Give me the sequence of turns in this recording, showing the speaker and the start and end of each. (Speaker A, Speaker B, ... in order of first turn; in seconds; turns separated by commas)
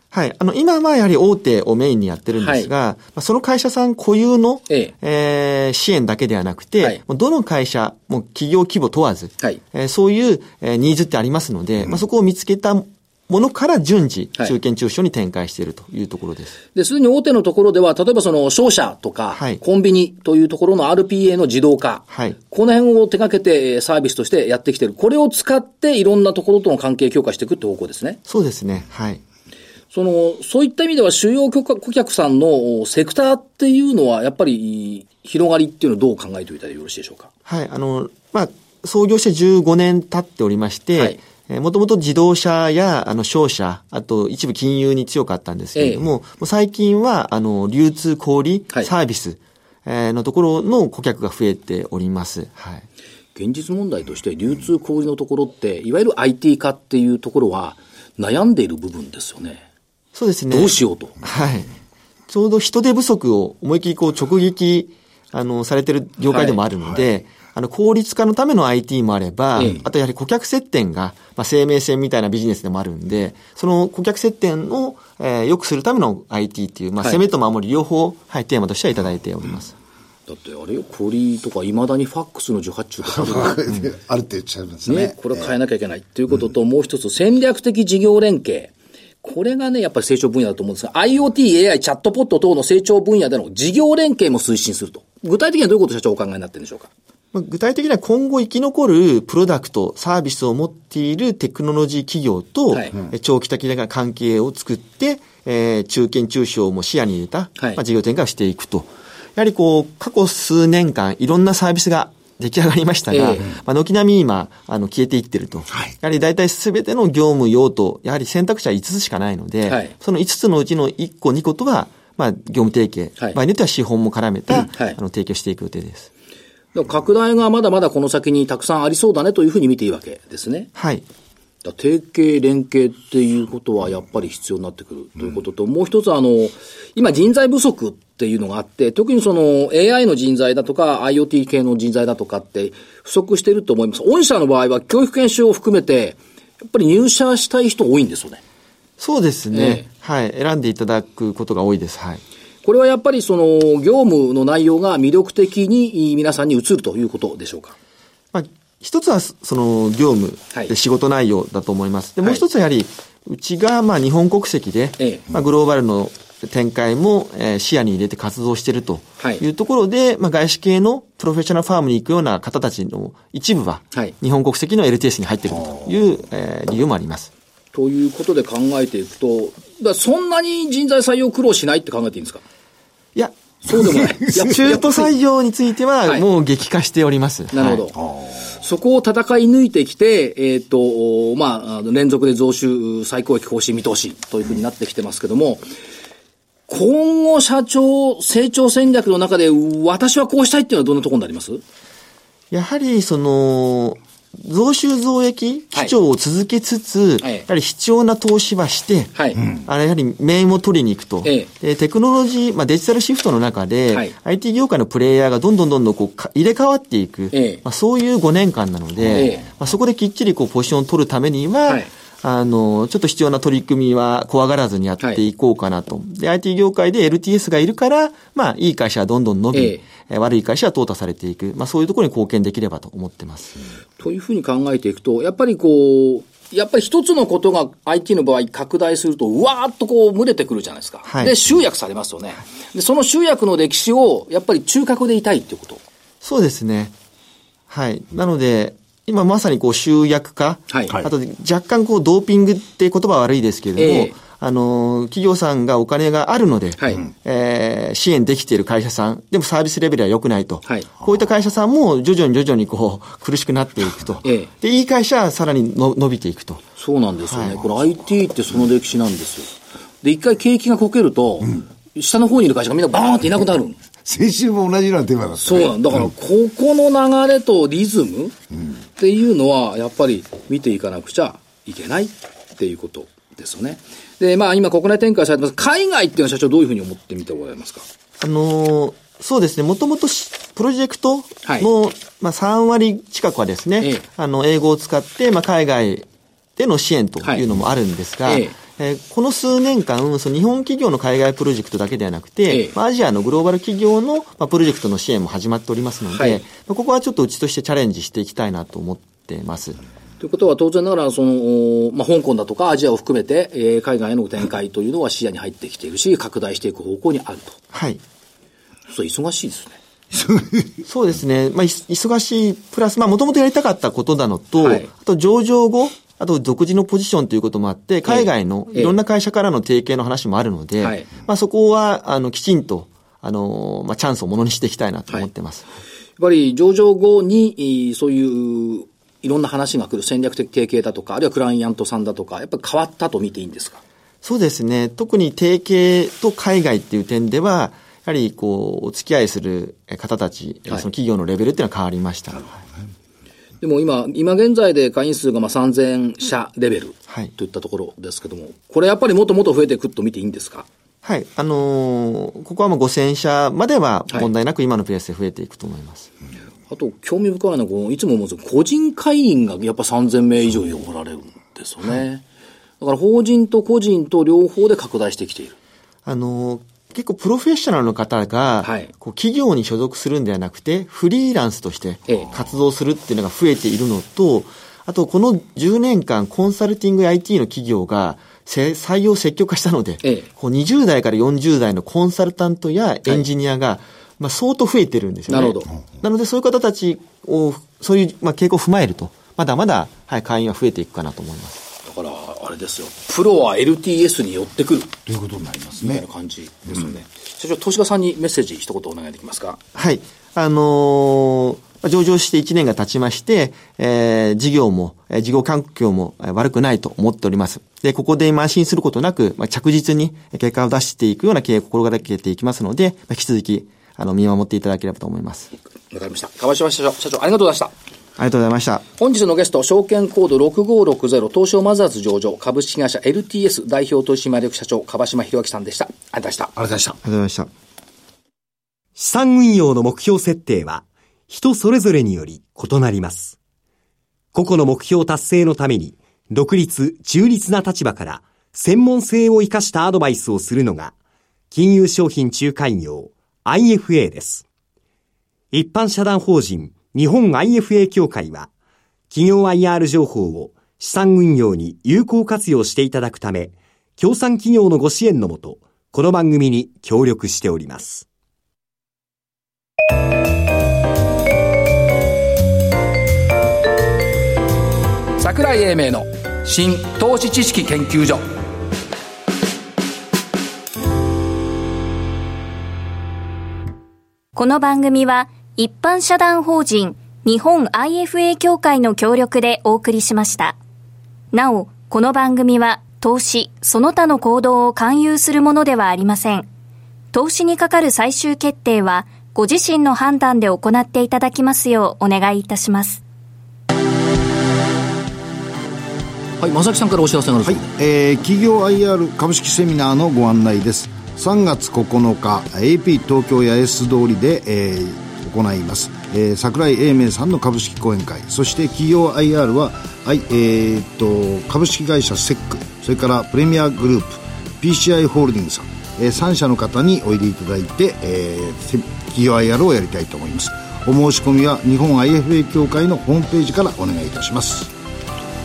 Speaker A: 0.1-16.6, Speaker B: 2.4-2.7, Speaker B: 16.8-28.2, Speaker A: 19.3-19.6, Speaker A: 22.1-22.4, Speaker A: 28.3-29.2, Speaker B: 29.9-37.3, Speaker A: 37.5-52.9, Speaker B: 45.8-46.1, Speaker B: 53.4-59.6, Speaker A: 60.1-61.7, Speaker B: 60.5-61.2, Speaker A: 62.3-79.8, Speaker B: 66.3-66.6, Speaker B: 69.6-69.8, Speaker B: 80.3-83.6, Speaker C: 83.0-85.5, Speaker B: 84.9-96.9, Speaker A: 97.3-126.1, Speaker B: 113.1-113.4, Speaker B: 119.7-119.9, Speaker B: 124.7-125.0, Speaker B: 126.7-130.7, Speaker A: 130.8-131.0, Speaker B: 131.6-148.4, Speaker A: 149.0-152.2, Speaker B: 149.5-149.8, Speaker B: 152.6-157.8, Speaker A: 158.3-177.3, Speaker B: 165.0-165.2, Speaker B: 177.7-182.4, Speaker B: 183.7-185.1, Speaker A: 183.9-187.8, Speaker B: 187.5-195.7, Speaker B: 196.7-201.6, Speaker A: 202.5-233.6, Speaker B: 209.2-209.4, Speaker B: 211.2-211.5, Speaker B: 217.3-217.6, Speaker B: 219.1-219.5, Speaker B: 229.5-229.8, Speaker B: 234.0-245.8, Speaker A: 241.1-241.4, Speaker A: 246.2-246.9, Speaker A: 247.7-266.7, Speaker B: 250.7-250.9, Speaker B: 253.8-254.2, Speaker B: 256.8-257.0, Speaker B: 264.2-264.5, Speaker B: 266.8-273.8, Speaker A: 267.3-267.6, Speaker C: 274.1-276.1, Speaker B: 275.4-278.4, Speaker B: 279.0-287.9, Speaker A: 288.2-296.1, Speaker A: 296.6-309.8, Speaker B: 298.3-298.6, Speaker B: 302.5-302.8, Speaker B: 306.1-306.4, Speaker B: 310.2-317.6, Speaker A: 317.7-318.0, Speaker B: 318.9-319.8, Speaker A: 320.9-335.6, Speaker B: 324.6-324.9, Speaker B: 328.1-329.0, Speaker B: 330.8-331.1, Speaker B: 336.2-343.8, Speaker A: 344.2-352.6, Speaker B: 353.6-360.7, Speaker A: 361.0-366.1, Speaker B: 366.7-372.2, Speaker B: 372.8-375.6, Speaker A: 376.1-401.6, Speaker B: 378.6-378.9, Speaker B: 390.0-390.3, Speaker B: 395.3-395.7, Speaker B: 401.9-404.9, Speaker C: 405.1-406.0, Speaker B: 405.8-409.6, Speaker A: 409.8-425.5, Speaker B: 425.9-427.7, Speaker A: 428.2-428.9, Speaker B: 429.0-436.5, Speaker C: 436.6-437.0, Speaker A: 437.0-437.5, Speaker D: 439.0-443.4, Speaker D: 444.3-450.9, Speaker D: 451.5-454.4, Speaker D: 455.5-458.5, Speaker D: 459.1-468.1, Speaker B: 475.2-478.2, Speaker E: 484.4-490.6, Speaker E: 491.3-496.5, Speaker E: 497.1-503.0, Speaker B: 506.4-507.7, Speaker C: 507.4-534.7